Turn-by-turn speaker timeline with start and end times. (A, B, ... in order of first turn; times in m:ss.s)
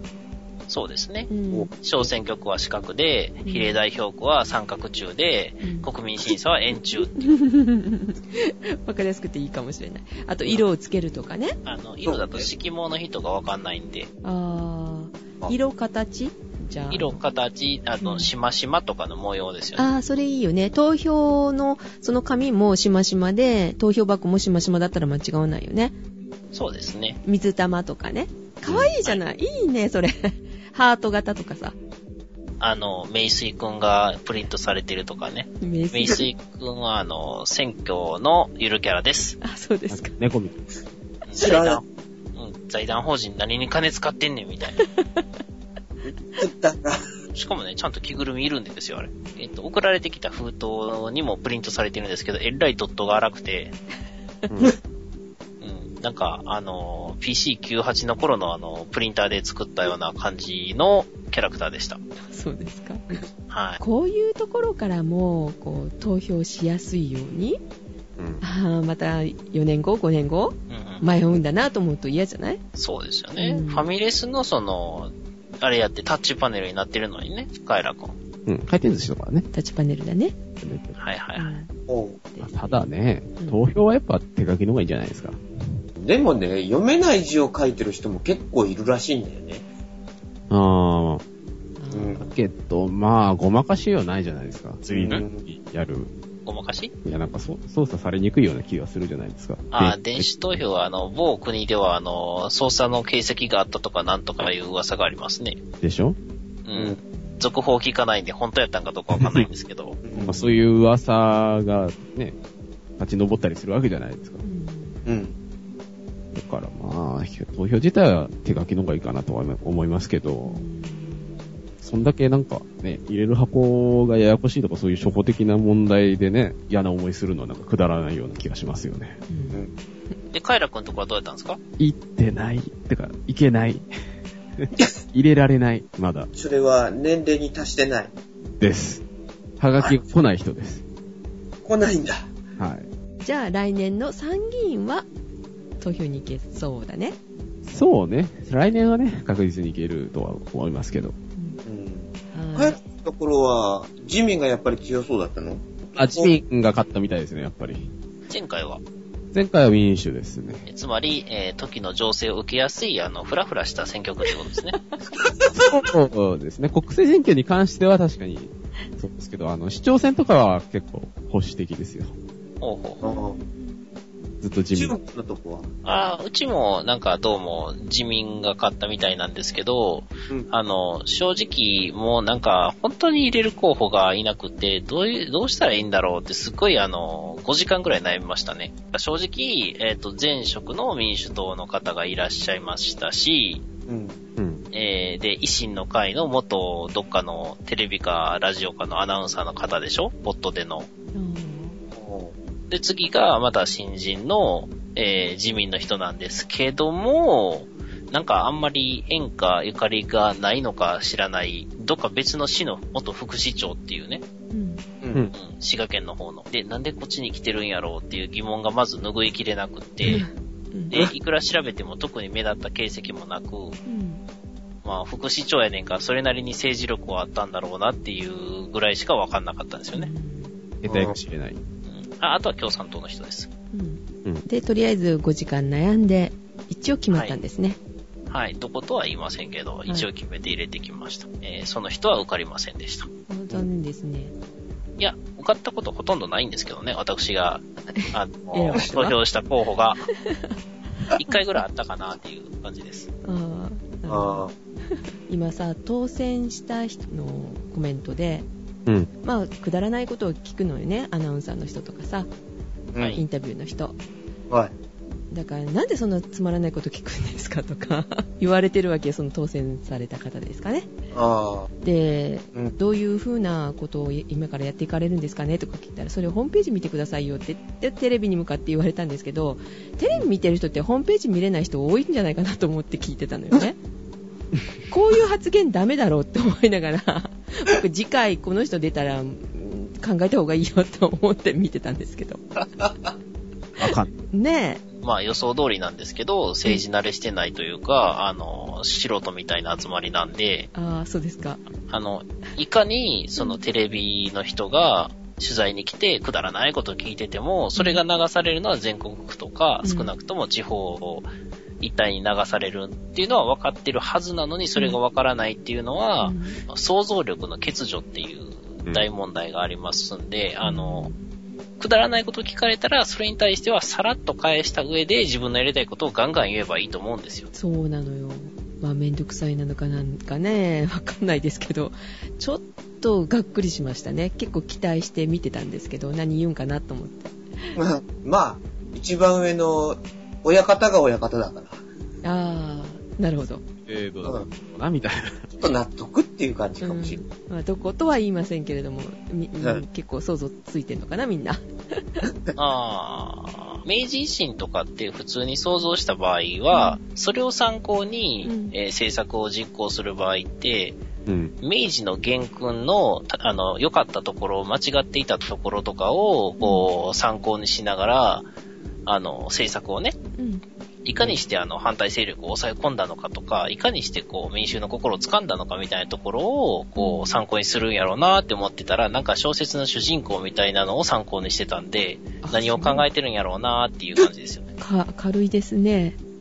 0:00.7-0:07.3 A
0:01.3-0:01.7 B
0:03.4-0:03.8 B
0:05.6-0:05.9 B
0:07.1-0:11.6 B
0:11.6-0:14.1 A
0:12.0-0:12.5 C
0:14.2-0:17.2 B
0:16.9-0:19.9 A
0:18.0-0:18.3 B
0:19.8-0:25.9 B
0:26.5-0:27.2 A
0:27.2-0:31.7 B
0:32.6-0:39.4 A
0:35.6-0:36.2 B
0:39.4-0:40.2 B
0:39.9-0:40.6 D
0:41.3-0:41.8 A
0:41.4-0:41.8 C
0:42.3-0:44.8 A
0:44.8-0:45.2 B
0:46.0-0:47.0 C
0:47.3-0:53.8 A
0:54.5-0:54.8 D
0:55.6-1:02.0 A
1:02.2-1:03.2 B
1:03.5-1:03.8 A
1:03.8-1:07.6 B
1:08.4-1:12.6 B
1:10.7-1:11.0 A
1:12.8-1:18.1 A
1:13.4-1:13.9 B
1:18.4-1:19.5 D
1:19.5-1:20.3 B
1:20.6-1:21.0 D
1:21.0-1:21.6 A
1:21.4-1:21.7 B
1:21.9-1:22.2 C
1:22.3-1:22.8 B
1:22.4-1:25.8 D
1:26.0-1:29.6 C
1:30.5-1:31.2 D
1:31.8-1:32.3 B
1:31.9-1:32.3 C
1:32.2-1:36.1 D
1:34.9-1:35.5 C
1:36.4-1:36.9 A
1:37.0-1:40.3 D
1:39.7-1:45.6 A
1:45.8-1:46.2 D
1:46.6-1:50.0 A
1:47.2-1:47.4 B
1:49.1-1:49.5 D
1:50.0-1:50.4 C
1:50.2-1:52.4 D
1:53.0-1:54.4 D
1:54.4-1:55.1 B
1:55.0-1:55.3 C
1:56.3-2:00.6 D
2:00.4-2:01.6 B
2:01.8-2:09.2 D
2:09.3-2:09.6 B
2:10.3-2:11.6 A
2:11.8-2:13.8 D
2:14.6-2:16.3 D
2:16.3-2:18.1 C
2:18.6-2:19.0 D
2:19.6-2:20.8 D
2:21.6-2:22.3 C
2:22.6-2:22.9 D
2:23.2-2:25.0 B
2:25.8-2:27.2 B
2:27.6-2:31.1 D
2:31.6-2:36.3 C
2:32.3-2:32.8 B
2:36.0-2:37.9 D
2:38.3-2:38.8 A
2:39.3-2:40.6 D
2:40.7-2:44.8 A
2:45.2-2:45.8 C
2:45.5-2:52.1 D
2:52.6-2:53.0 A
2:53.0-2:53.4 C
2:53.0-2:53.8 B
2:54.4-2:54.9 D
2:54.7-2:55.7 C
2:55.8-3:13.6 A
3:13.9-3:14.2 C
3:14.4-3:14.6 D
3:14.7-3:20.9 A
3:21.1-3:21.8 B
3:21.9-3:22.3 C
3:22.7-3:34.2 A
3:34.5-3:34.8 B
3:35.0-3:35.3 C
3:35.3-3:40.2 A
3:40.0-3:40.9 B
3:40.9-3:43.8 A
3:43.8-3:44.2 B
3:44.8-3:50.1 A
3:49.9-3:50.5 B
3:50.8-3:51.6 D
3:50.9-3:51.1 C
3:51.8-3:53.5 A
3:53.7-3:57.8 B
3:57.1-3:57.4 A
3:58.3-4:03.1 A
4:03.3-4:04.3 B
4:05.0-4:10.0 A
4:07.9-4:09.2 B
4:10.1-4:11.1 B
4:11.2-4:13.1 A
4:13.2-4:18.5 B
4:14.1-4:14.5 C
4:19.2-4:22.3 B
4:22.9-4:23.2 C
4:23.0-4:23.2 A
4:23.1-4:23.9 B
4:25.3-4:30.9 B
4:31.1-4:31.7 C
4:31.8-4:43.8 B
4:44.9-4:52.4 B
4:52.8-4:53.1 C
4:53.8-4:54.1 D
4:53.8-4:54.8 B
4:55.0-5:00.7 A
5:00.7-5:01.6 B
5:01.9-5:11.3 A
5:07.8-5:08.0 B
5:09.8-5:10.1 B
5:11.8-5:21.1 A
5:16.2-5:16.6 B
5:20.6-5:21.2 B
5:21.8-5:27.5 A
5:27.5-5:37.7 B
5:37.7-5:41.7 C
5:42.2-5:43.6 B
5:43.8-5:45.5 D
5:45.6-5:47.2 C
5:46.8-5:52.2 B
5:52.6-6:01.0 A
5:56.7-5:57.0 B
5:58.4-5:58.7 B
6:01.3-6:01.5 D
6:01.6-6:08.5 A
6:06.6-6:06.8 B
6:09.0-6:10.2 A
6:10.4-6:10.6 B
6:11.0-6:24.7 A
6:17.0-6:17.4 B
6:22.4-6:23.0 B
6:24.8-6:26.2 B